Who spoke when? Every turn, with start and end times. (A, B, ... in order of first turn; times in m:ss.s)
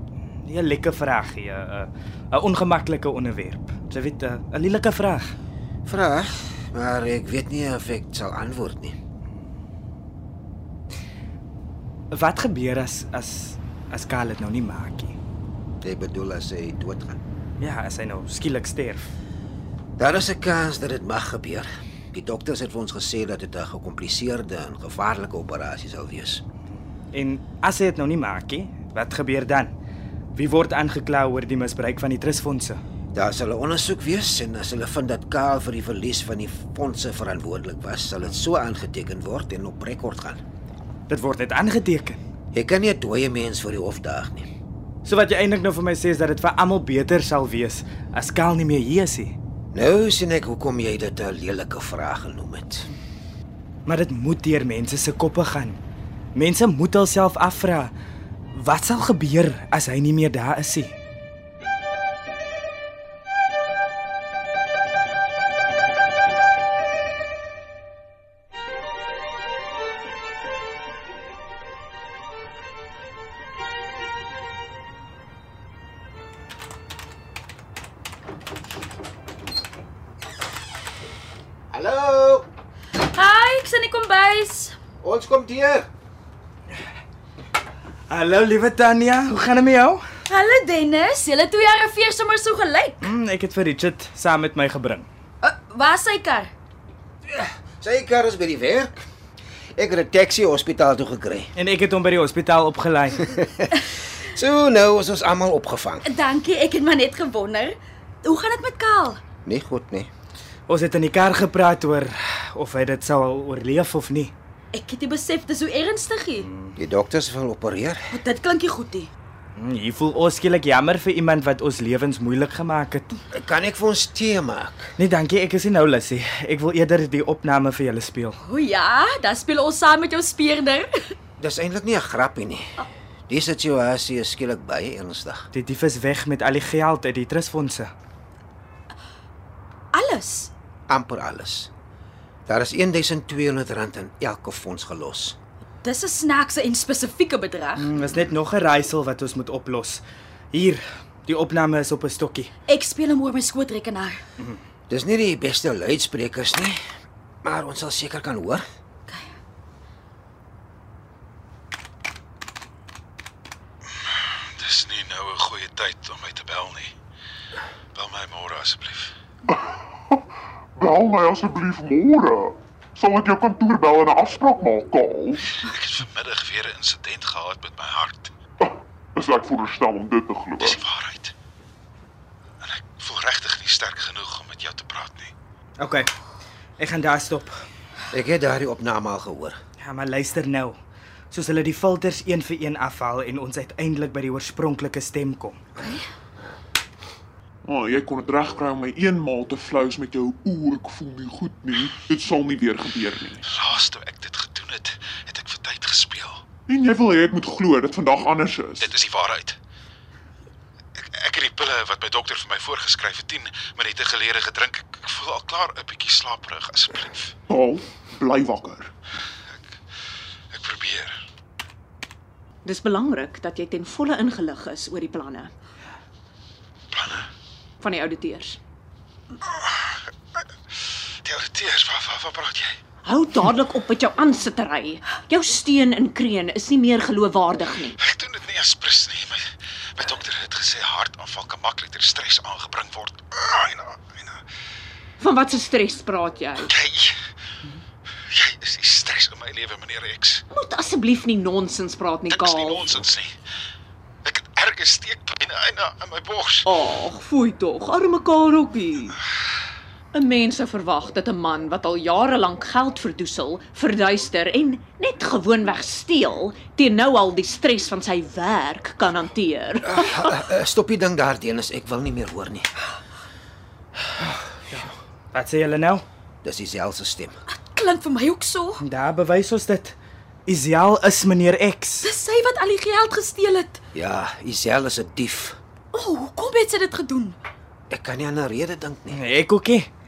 0:00.3-0:05.3 A
0:05.9-0:09.0 B
0:12.1-0:15.2 A
0:15.8-0:17.2 B
0:17.6-0:19.1 A
0:20.0-0:26.4 B
0:27.1-0:29.7 A
0:30.4-0:32.8 A
0:33.1-0:40.4 B
0:41.1-0:42.2 A
0:42.5-0:44.5 B
0:45.0-0:49.3 A
0:49.7-0:52.9 B
0:53.9-0:55.8 A
0:56.3-0:57.9 A
0:58.6-1:00.9 A
1:21.7-1:22.5 B
1:23.0-1:24.8 C
1:25.0-1:25.9 B
1:28.1-1:30.0 A
1:30.3-1:33.1 C
1:33.0-1:35.1 A
1:35.4-1:36.5 C
1:37.3-1:39.0 B
1:39.8-1:41.5 B
1:41.6-1:43.4 A
1:43.4-1:46.1 B
1:46.1-1:49.2 C
1:49.4-1:50.1 B
1:50.7-1:54.3 A
1:54.7-1:56.5 C
1:56.4-1:56.8 A
1:56.8-1:58.0 B
1:58.1-1:59.1 C
1:59.6-2:03.1 A
2:03.3-2:04.9 B
2:05.0-2:08.4 A
2:08.4-2:10.9 C
2:11.4-2:15.5 B
2:15.5-2:17.9 A
2:19.9-2:20.5 C
2:20.9-2:21.7 B
2:22.5-2:25.4 B
2:25.8-2:27.8 C
2:27.8-2:30.0 A
2:30.5-2:32.5 A
2:32.7-2:34.2 C
2:34.9-2:36.8 B
2:37.4-2:38.6 B
2:44.1-2:46.9 D
2:47.9-2:49.1 D
2:49.5-2:50.2 E
2:50.8-2:55.6 E
2:55.6-2:58.3 D
2:58.6-3:00.8 E
3:00.6-3:01.3 D
3:02.6-3:05.3 D
3:05.8-3:06.1 A
3:06.8-3:07.5 A
3:08.1-3:09.6 B
3:09.8-3:10.8 A
3:11.3-3:15.6 A
3:17.6-3:23.4 E
3:23.5-3:26.4 D
3:26.7-3:28.9 E
3:28.8-3:29.6 D
3:31.0-3:37.3 D
3:37.5-3:38.9 E
3:40.5-3:41.1 D
3:42.6-3:45.5 F
3:46.9-3:47.3 D
3:47.8-3:48.6 F
3:49.5-3:50.0 D
3:51.2-3:52.8 D
3:53.0-3:58.0 F
3:58.0-3:59.4 D
3:59.9-4:04.4 D
4:05.2-4:06.7 F
4:06.7-4:07.2 D
4:08.3-4:10.4 D
4:10.5-4:13.0 F
4:12.3-4:13.3 D
4:14.2-4:16.7 D
4:16.7-4:19.2 F
4:20.1-4:30.5 F
4:29.9-4:32.7 B
4:34.7-4:36.0 A
4:36.4-4:37.4 B
4:37.5-4:38.8 C
4:38.8-4:40.0 A
4:40.5-4:42.1 A
4:42.0-4:43.8 C
4:43.9-4:45.6 B
4:45.9-4:47.4 C
4:47.9-4:49.2 B
4:49.1-4:49.9 A